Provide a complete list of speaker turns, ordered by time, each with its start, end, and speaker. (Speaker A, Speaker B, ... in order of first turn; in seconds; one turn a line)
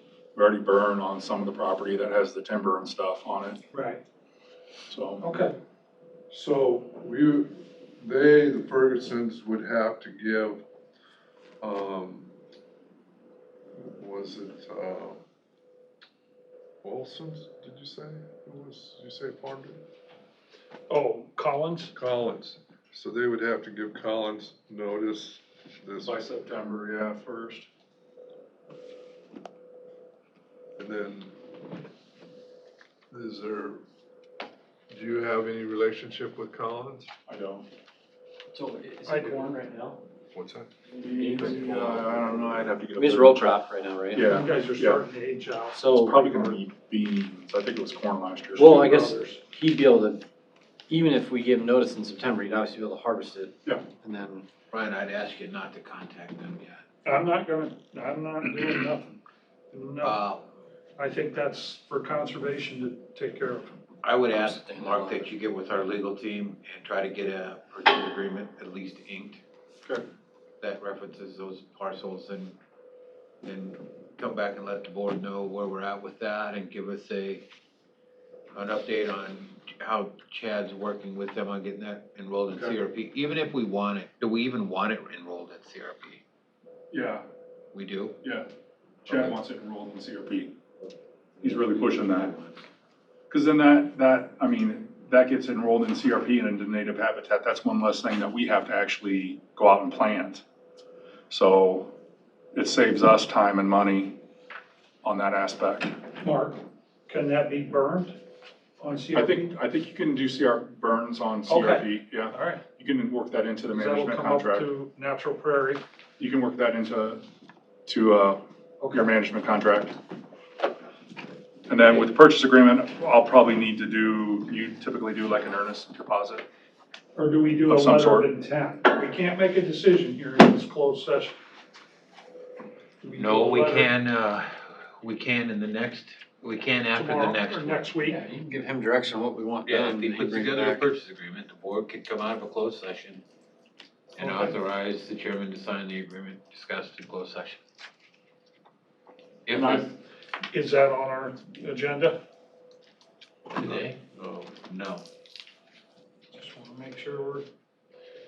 Speaker A: 0.3-3.6
Speaker B: 3.7-4.0
Speaker A: 4.9-5.3
Speaker B: 5.2-5.5
Speaker C: 6.3-10.7
Speaker C: 11.6-12.3
Speaker C: 13.8-15.2
Speaker C: 16.8-19.8
Speaker B: 20.9-21.9
Speaker C: 21.9-26.2
Speaker A: 26.0-27.7
Speaker C: 30.8-31.4
Speaker C: 33.1-33.8
Speaker C: 34.9-37.1
Speaker A: 37.3-37.7
Speaker D: 38.5-40.0
Speaker B: 39.1-39.5
Speaker C: 40.3-40.7
Speaker A: 41.0-43.5
Speaker D: 41.0-42.2
Speaker D: 42.9-44.3
Speaker A: 44.1-45.0
Speaker B: 44.3-46.6
Speaker D: 45.7-46.1
Speaker A: 46.1-48.9
Speaker D: 48.5-50.2
Speaker B: 48.8-49.4
Speaker D: 50.9-54.5
Speaker E: 54.7-56.8
Speaker B: 57.0-59.2
Speaker B: 59.7-60.2
Speaker E: 60.0-60.5
Speaker B: 61.0-63.7
Speaker E: 64.0-69.4
Speaker D: 64.3-65.3
Speaker E: 70.6-72.6
Speaker E: 73.4-77.5
Speaker E: 78.5-86.2
Speaker A: 86.9-87.2
Speaker E: 87.7-88.2
Speaker A: 88.2-88.5
Speaker A: 89.0-90.6
Speaker E: 89.1-89.4
Speaker E: 91.4-92.7
Speaker A: 91.4-92.3
Speaker A: 93.3-100.5
Speaker A: 101.3-101.9
Speaker A: 102.5-104.2
Speaker A: 105.0-106.0
Speaker B: 106.2-108.2
Speaker B: 108.8-109.5
Speaker A: 109.1-114.7
Speaker B: 111.5-112.6
Speaker B: 113.7-115.8
Speaker A: 116.2-117.2
Speaker A: 117.9-120.0
Speaker B: 118.8-119.1
Speaker A: 121.7-126.5
Speaker B: 127.2-131.3
Speaker A: 127.7-128.3
Speaker B: 133.0-133.9
Speaker E: 133.1-137.8
Speaker B: 136.9-138.2
Speaker D: 138.1-140.8
Speaker E: 139.7-143.2
Speaker E: 144.2-147.6
Speaker D: 144.2-144.5
Speaker E: 149.5-149.9
Speaker B: 149.5-149.9
Speaker B: 150.5-152.2
Speaker E: 153.5-155.0
Speaker B: 156.3-157.5